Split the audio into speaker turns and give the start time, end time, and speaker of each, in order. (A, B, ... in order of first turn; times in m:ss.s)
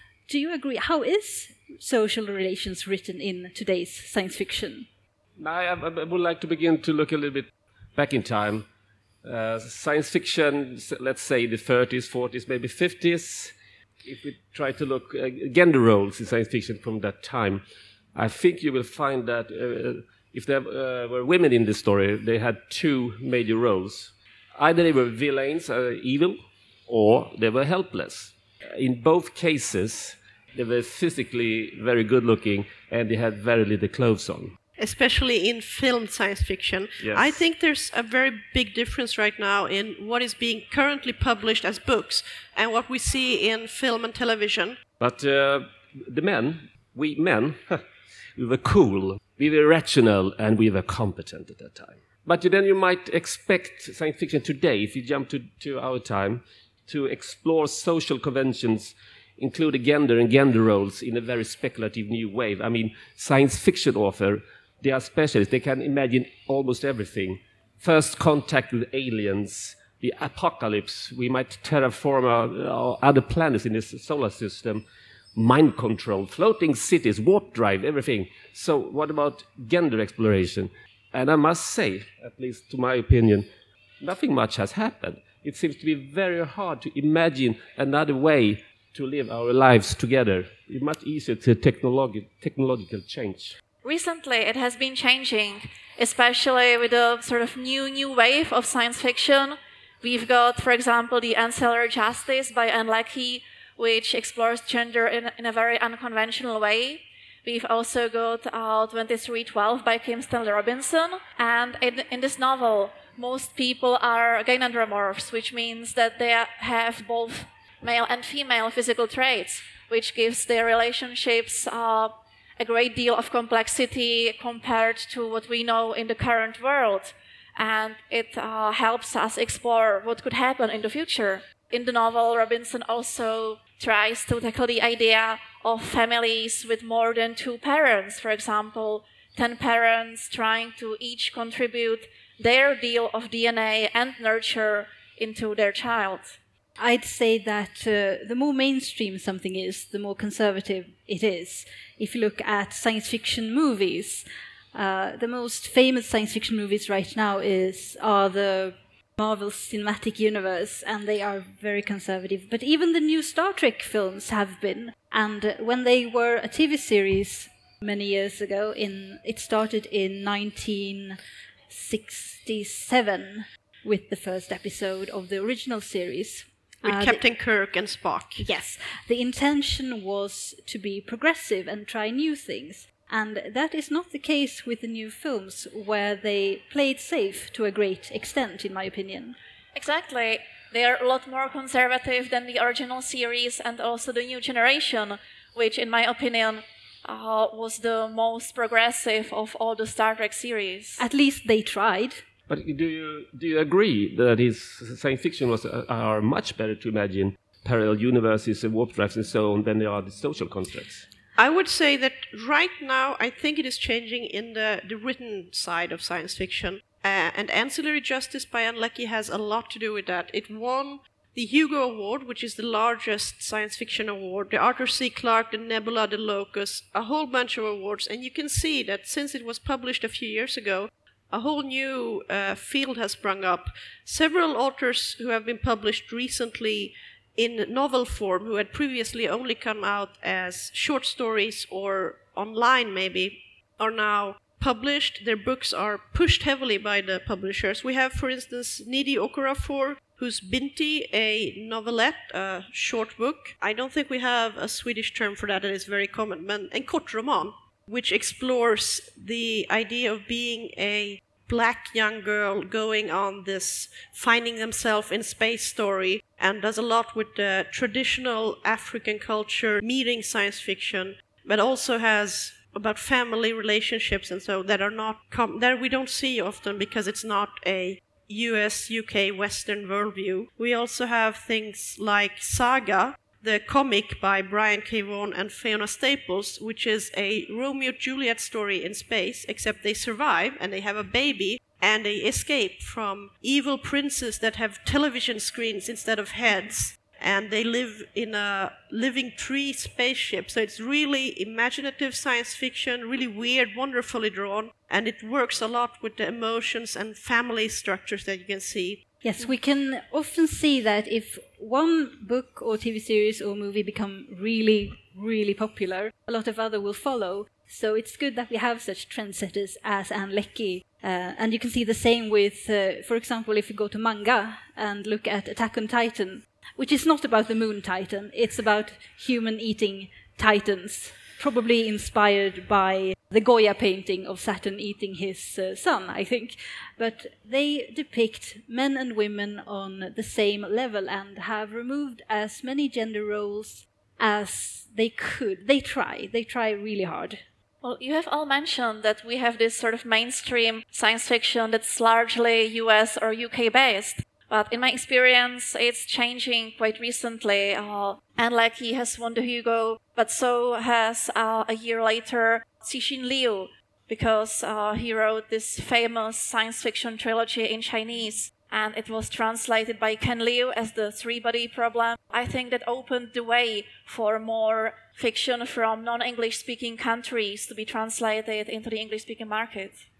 0:00.3-0:04.9 A
0:05.4-0:08.7 B
0:09.2-0:13.5 B
0:14.0-0:17.6 B
0:18.1-0:34.5 B
0:34.8-0:44.8 C
0:37.0-0:37.4 B
0:45.0-0:47.8 B
0:48.4-1:23.5 B
1:24.0-1:33.5 B
1:33.8-2:26.4 D
2:26.8-2:57.2 A
2:56.8-2:58.4 C
2:58.4-3:09.4 A
3:09.7-3:21.0 D
3:21.0-3:22.2 A
3:22.5-3:31.0 B
3:31.4-5:09.0 C
5:09.2-5:47.4 A
5:47.8-6:20.0 D